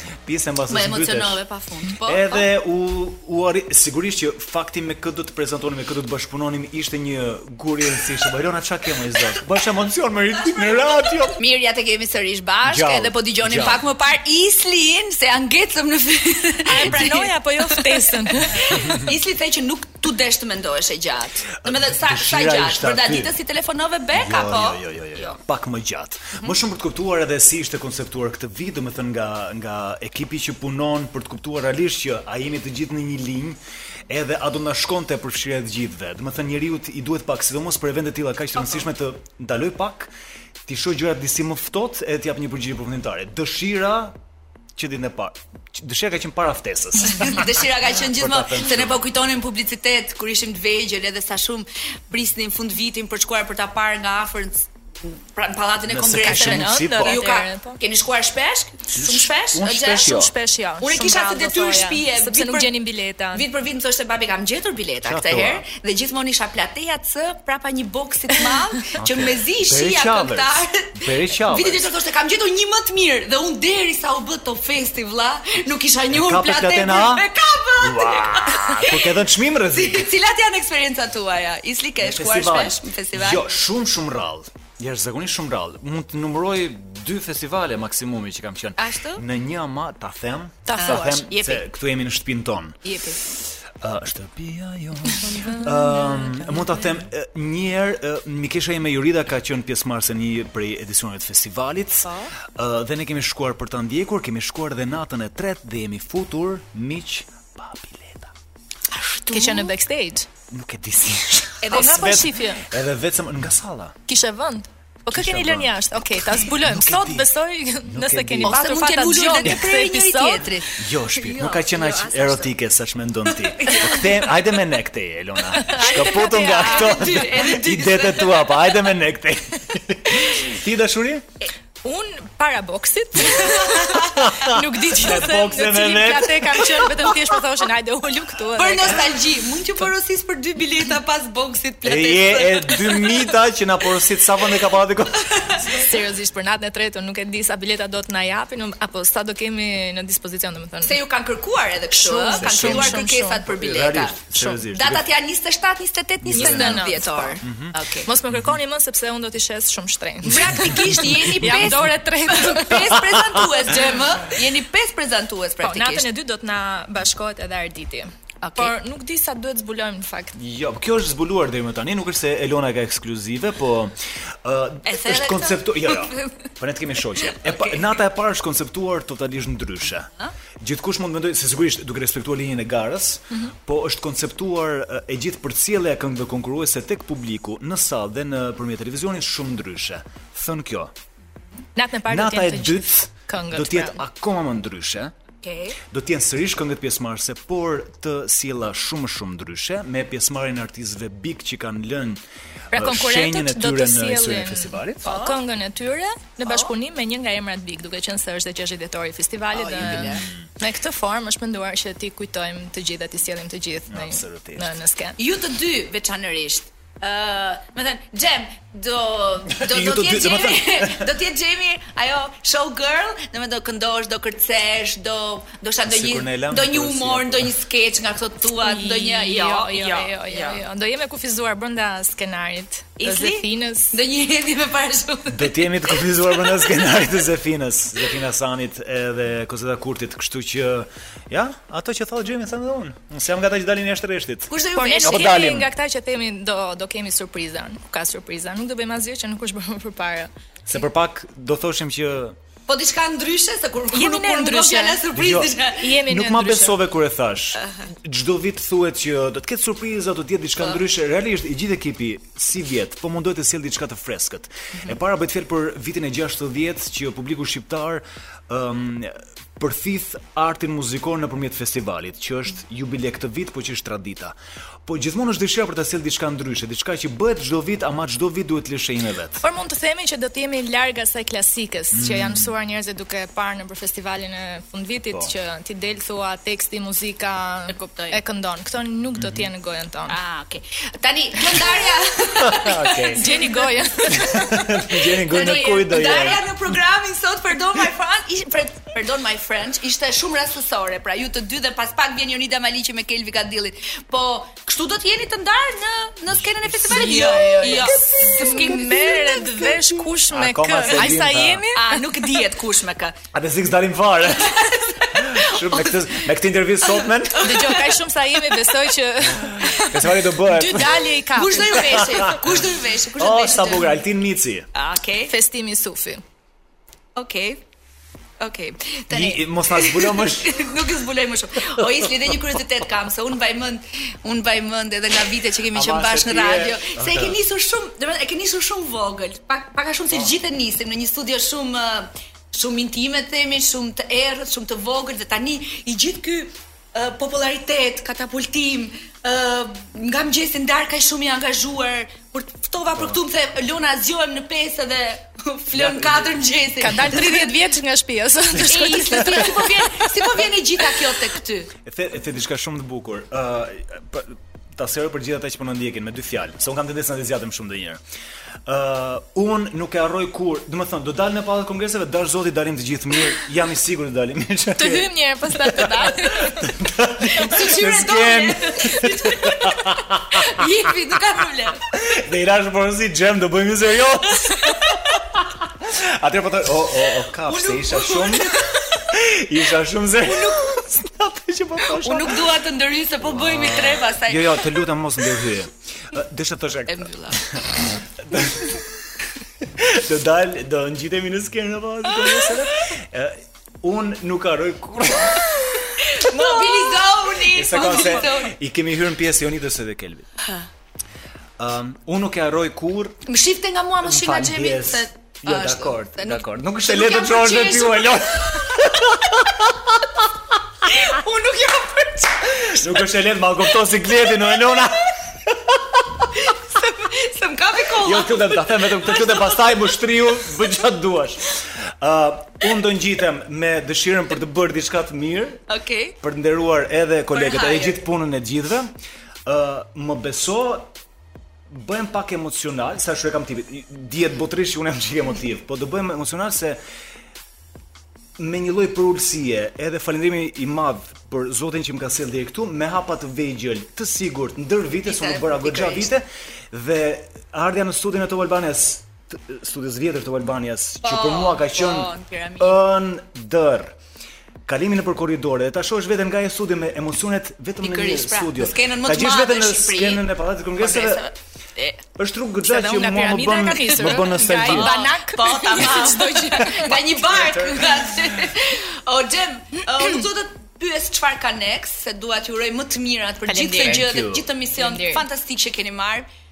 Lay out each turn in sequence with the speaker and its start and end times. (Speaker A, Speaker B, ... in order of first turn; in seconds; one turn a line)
Speaker A: 0.2-1.4
Speaker B: 0.7-2.5
Speaker A: 2.0-11.4
Speaker B: 11.3-25.4
Speaker A: 12.6-13.8
Speaker C: 16.6-18.8
Speaker A: 16.9-17.1
Speaker A: 18.7-19.1
Speaker A: 21.6-23.3
Speaker A: 24.1-40.1
Speaker A: 40.6-44.2
Speaker A: 44.8-49.0
Speaker B: 47.1-60.2
Speaker A: 55.9-57.2
Speaker C: 56.2-57.8
Speaker A: 58.9-60.3
Speaker C: 60.0-63.5
Speaker B: 60.8-62.7
Speaker B: 63.3-79.1
Speaker A: 65.0-65.7
Speaker A: 69.0-71.8
Speaker A: 76.1-77.3
Speaker A: 77.8-80.1
Speaker B: 79.7-83.4
Speaker A: 82.0-108.3
Speaker B: 88.8-89.2
Speaker C: 90.7-91.3
Speaker B: 90.7-91.6
Speaker B: 92.8-93.2
Speaker B: 95.2-96.3
Speaker B: 109.0-109.7
Speaker C: 109.2-110.3
Speaker A: 110.5-114.0
Speaker B: 111.6-112.2
Speaker C: 111.7-112.7
Speaker C: 114.1-120.7
Speaker A: 115.1-117.3
Speaker A: 117.8-118.7
Speaker B: 118.4-122.5
Speaker A: 120.8-131.2
Speaker B: 123.3-124.1
Speaker C: 125.5-127.3
Speaker B: 125.7-128.6
Speaker C: 131.8-139.2
Speaker B: 133.2-134.2
Speaker A: 134.0-136.8
Speaker B: 138.6-143.3
Speaker A: 141.8-145.7
Speaker B: 145.3-145.6
Speaker C: 145.6-151.0
Speaker B: 150.8-158.1
Speaker C: 151.9-153.5
Speaker A: 152.3-155.1
Speaker C: 154.3-154.6
Speaker A: 156.2-157.7
Speaker C: 156.3-157.4
Speaker C: 158.1-163.4
Speaker B: 160.2-166.0
Speaker C: 165.6-170.3
Speaker B: 168.4-168.7
Speaker A: 170.3-180.1
Speaker B: 174.8-176.5
Speaker B: 177.3-177.9
Speaker A: 180.6-190.9
Speaker C: 191.8-194.0
Speaker A: 192.1-195.1
Speaker B: 195.4-195.8
Speaker A: 195.9-202.2
Speaker A: 202.7-205.2
Speaker C: 202.7-215.2
Speaker B: 205.0-205.4
Speaker B: 209.5-210.2
Speaker A: 209.8-210.4
Speaker A: 213.9-214.8
Speaker B: 215.2-230.6
Speaker A: 219.6-221.1
Speaker A: 225.8-227.5
Speaker C: 228.6-234.0
Speaker B: 233.0-236.8
Speaker A: 235.3-245.7
Speaker B: 244.5-245.4
Speaker C: 244.8-250.3
Speaker A: 250.7-252.4
Speaker B: 252.7-255.9
Speaker C: 253.9-255.0
Speaker A: 255.1-279.4
Speaker C: 255.7-256.8
Speaker B: 257.6-257.9
Speaker C: 279.4-290.1
Speaker A: 281.9-282.5
Speaker B: 287.7-288.2
Speaker A: 289.2-289.5
Speaker B: 290.1-293.7
Speaker A: 292.4-293.2
Speaker C: 293.1-294.8
Speaker A: 294.1-296.7
Speaker B: 295.2-309.2
Speaker A: 306.3-311.6
Speaker C: 306.9-312.2
Speaker B: 311.7-313.2
Speaker A: 313.3-317.6
Speaker B: 314.4-316.3
Speaker B: 316.8-317.9
Speaker C: 317.4-322.4
Speaker A: 319.4-321.1
Speaker B: 321.0-324.0
Speaker A: 321.8-322.6
Speaker A: 323.1-324.7
Speaker B: 324.7-325.3
Speaker C: 325.3-326.2
Speaker B: 327.1-327.6
Speaker B: 328.4-357.5
Speaker A: 329.1-330.7
Speaker A: 331.8-332.3
Speaker A: 335.7-337.4
Speaker A: 355.7-356.4
Speaker C: 356.8-360.2
Speaker B: 358.6-361.7
Speaker A: 361.8-368.0
Speaker A: 368.6-380.7
Speaker C: 374.8-376.7
Speaker B: 377.3-381.8
Speaker A: 381.9-392.5
Speaker B: 384.5-385.2
Speaker B: 387.4-389.0
Speaker B: 390.2-390.8
Speaker B: 391.9-394.8
Speaker A: 393.2-398.8
Speaker B: 396.9-397.6
Speaker A: 399.6-406.1
Speaker B: 406.0-408.5
Speaker A: 407.2-410.3
Speaker A: 411.6-413.2
Speaker B: 413.2-418.8
Speaker A: 414.0-420.1
Speaker B: 420.8-422.9
Speaker A: 422.6-426.3
Speaker B: 426.3-429.9
Speaker A: 427.9-435.6
Speaker B: 435.7-436.1
Speaker A: 436.2-438.9
Speaker B: 437.3-438.0
Speaker A: 439.4-440.9
Speaker A: 441.7-446.8
Speaker A: 448.4-463.9
Speaker B: 455.0-456.1
Speaker B: 461.0-462.8
Speaker A: 464.6-471.2
Speaker B: 467.8-470.2
Speaker B: 470.8-472.0
Speaker A: 472.1-475.0
Speaker C: 472.6-476.9
Speaker B: 474.6-486.3
Speaker A: 476.6-478.5
Speaker C: 483.5-484.1
Speaker A: 483.8-484.4
Speaker C: 484.8-485.2